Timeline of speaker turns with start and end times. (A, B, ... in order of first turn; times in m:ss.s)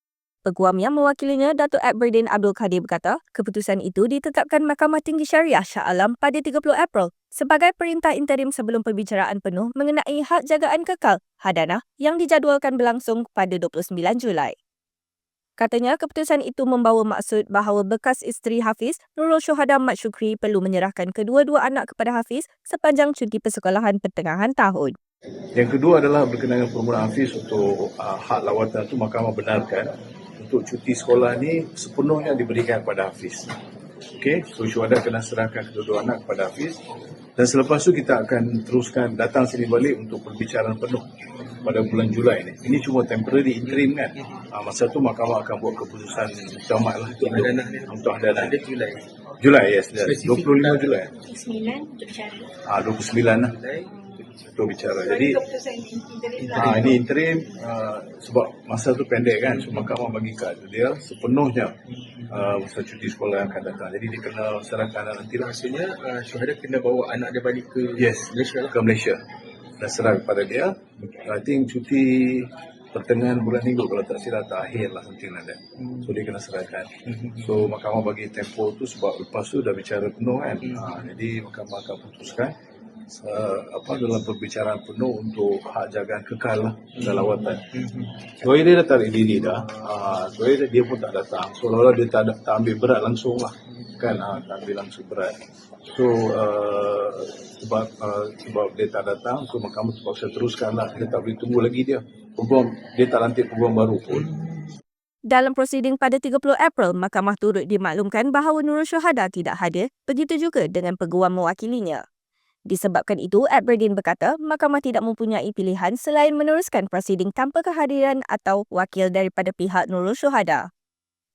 0:00.4-0:14.6 A
0:15.6-0:24.9 A
0:25.5-0:33.5 B
0:34.2-0:36.8 B
0:37.4-0:41.0 B
0:41.6-0:48.6 B
0:43.8-0:44.4 C
0:47.1-0:49.0 C
0:49.4-0:51.2 B
0:50.0-0:50.8 C
0:51.2-0:52.5 D
0:52.6-0:53.6 B
0:53.2-0:54.1 C
0:54.4-0:55.4 B
0:55.2-0:56.5 D
0:56.4-0:57.0 C
0:56.5-1:01.7 B
1:02.0-1:02.4 C
1:02.3-1:05.5 B
1:05.4-1:08.7 C
1:08.0-1:09.2 B
1:09.8-1:22.5 B
1:17.1-1:17.5 C
1:23.1-1:27.7 B
1:27.0-1:28.2 C
1:28.3-1:35.4 B
1:35.9-1:44.3 B
1:45.3-1:52.0 A
1:52.7-2:00.7 A